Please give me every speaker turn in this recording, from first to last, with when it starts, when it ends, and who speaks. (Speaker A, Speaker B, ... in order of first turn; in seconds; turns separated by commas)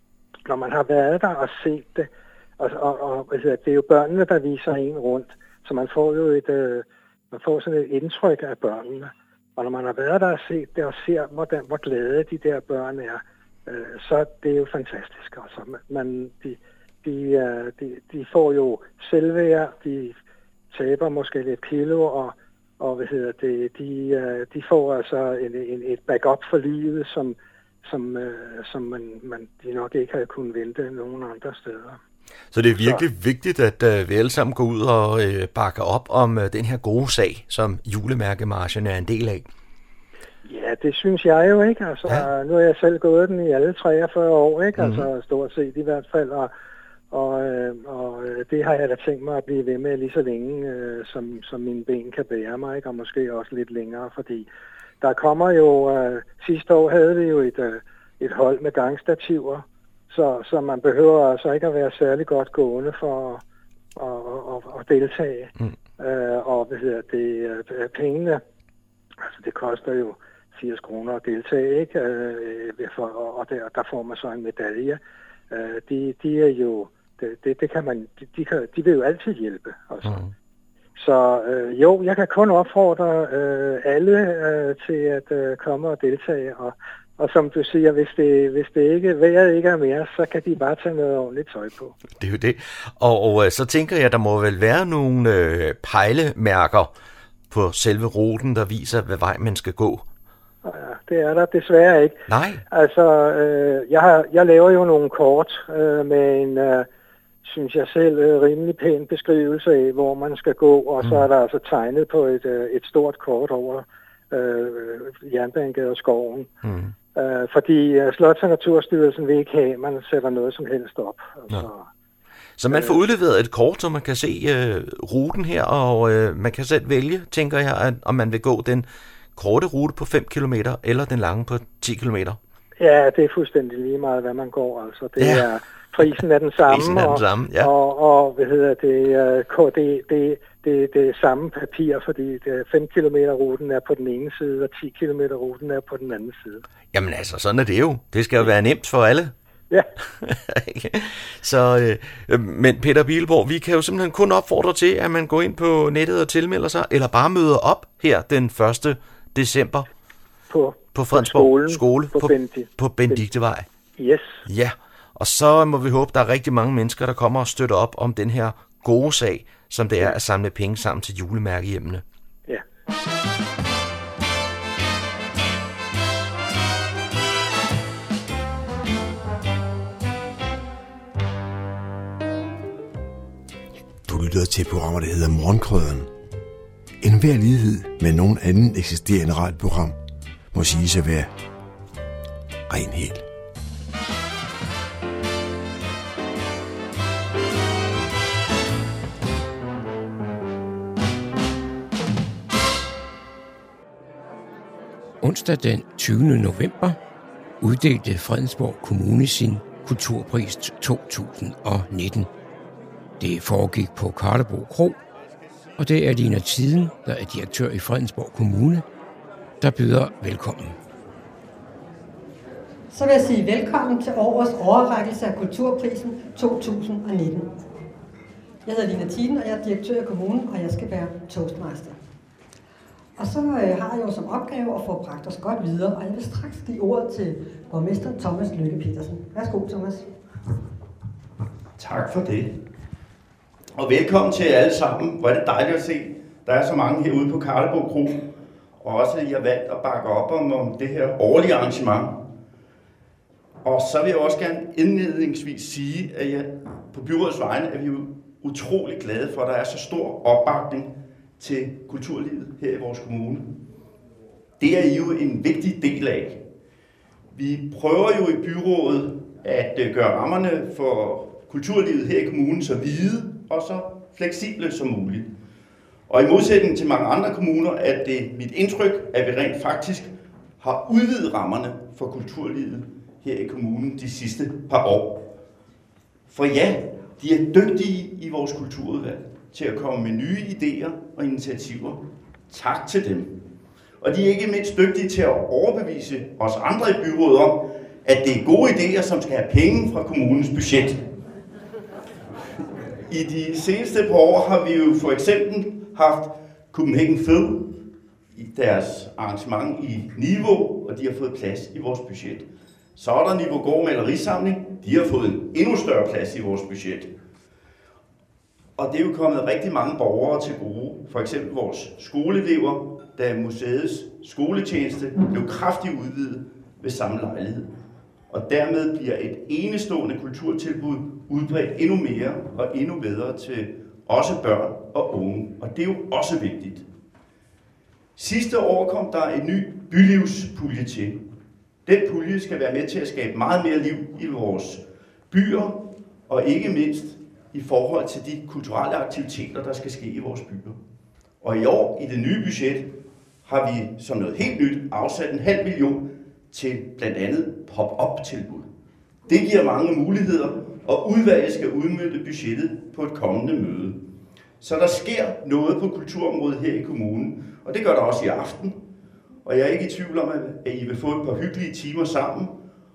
Speaker A: 0.5-20.2, Speaker A: 20.7-32.0, Speaker B: 32.5-39.5, Speaker A: 32.8-33.0, Speaker A: 40.4-46.5, Speaker B: 44.8-45.1, Speaker A: 47.1-54.5, Speaker A: 55.0-63.4, Speaker A: 64.0-68.4, Speaker A: 69.3-75.0, Speaker A: 75.5-80.1, Speaker B: 80.0-80.3, Speaker A: 81.0-91.9, Speaker B: 92.1-96.9, Speaker B: 97.5-100.0, Speaker A: 100.6-102.2, Speaker B: 102.3-102.6, Speaker A: 102.7-106.9, Speaker A: 107.4-116.5, Speaker B: 116.6-116.9, Speaker A: 117.1-121.9, Speaker B: 122.6-132.4, Speaker A: 122.7-123.0, Speaker A: 132.8-146.6, Speaker B: 135.2-135.4, Speaker B: 136.0-137.7, Speaker B: 146.9-149.3, Speaker B: 150.2-159.9, Speaker A: 160.5-163.2, Speaker B: 160.9-163.7, Speaker A: 164.0-164.4, Speaker B: 164.5-172.0, Speaker C: 184.1-186.1, Speaker C: 187.0-189.9, Speaker C: 190.5-191.3, Speaker C: 192.7-193.2, Speaker D: 205.2-207.0, Speaker D: 207.6-212.3, Speaker D: 213.2-215.0, Speaker D: 215.8-218.8, Speaker D: 219.6-220.8, Speaker E: 222.9-227.5, Speaker E: 228.6-231.9, Speaker E: 233.2-240.1, Speaker F: 241.8-242.5, Speaker F: 243.7-248.2, Speaker F: 248.8-252.2, Speaker F: 253.6-263.5, Speaker F: 264.6-266.4, Speaker F: 267.3-275.3, Speaker F: 276.1-285.2, Speaker F: 286.3-293.3, Speaker F: 294.0-301.0, Speaker F: 303.1-307.6, Speaker F: 308.4-317.1, Speaker F: 318.8-327.6, Speaker F: 328.3-336.9, Speaker F: 338.1-341.2, Speaker F: 341.9-350.8, Speaker F: 351.4-352.9, Speaker F: 353.4-358.6, Speaker F: 359.3-364.0, Speaker F: 364.6-368.8, Speaker F: 369.4-372.5